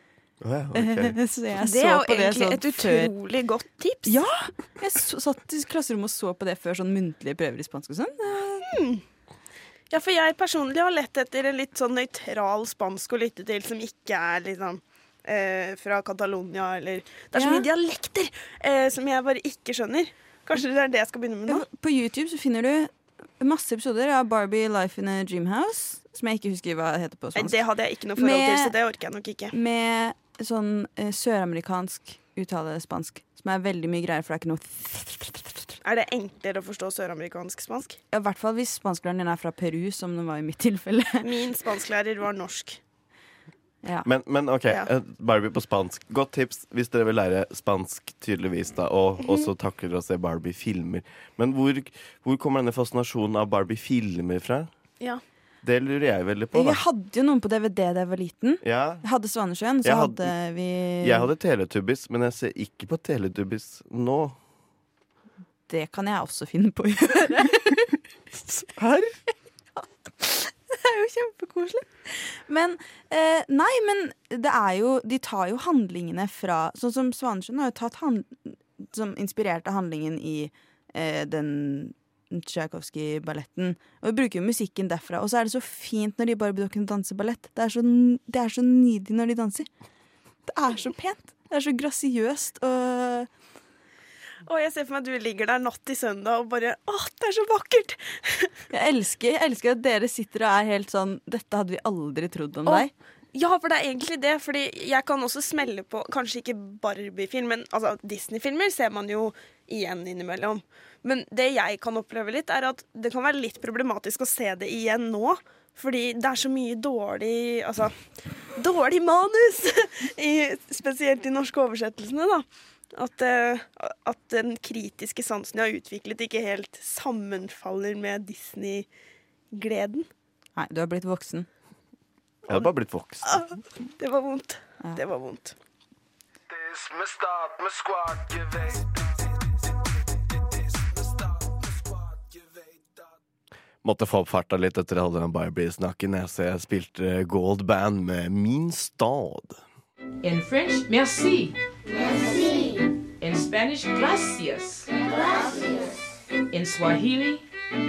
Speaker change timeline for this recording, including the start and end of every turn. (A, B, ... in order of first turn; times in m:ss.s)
0:00.4-0:01.2 A
0:00.8-0:03.1 B
0:01.6-0:04.2 C
0:04.1-0:08.7 B
0:08.7-0:09.0 C
0:09.9-0:21.7 C
0:17.4-0:17.7 B
0:21.5-0:27.6 B
0:27.4-0:29.6 C
0:28.2-0:28.7 B
0:29.5-0:35.7 B
0:35.8-0:38.0 C
0:38.1-0:41.3 B
0:41.2-0:42.8 C
0:44.0-0:54.7 A
0:55.6-0:56.8 A
0:56.5-1:01.3 B
0:58.6-0:59.0 A
0:59.8-1:00.3 A
1:01.0-1:04.4 A
1:05.7-1:08.0 B
1:08.8-1:09.2 A
1:10.2-1:29.7 B
1:30.5-1:33.3 B
1:34.5-1:38.5 C
1:38.7-1:42.9 B
1:42.7-1:57.9 C
1:58.6-2:08.9 C
2:09.5-2:10.1 C
2:10.6-2:11.5 B
2:12.5-2:13.4 A
2:13.2-2:15.6 C
2:17.2-2:18.1 A
2:23.8-2:29.6 A
2:30.2-2:31.5 D
2:33.2-2:34.9 D
2:36.5-2:37.4 D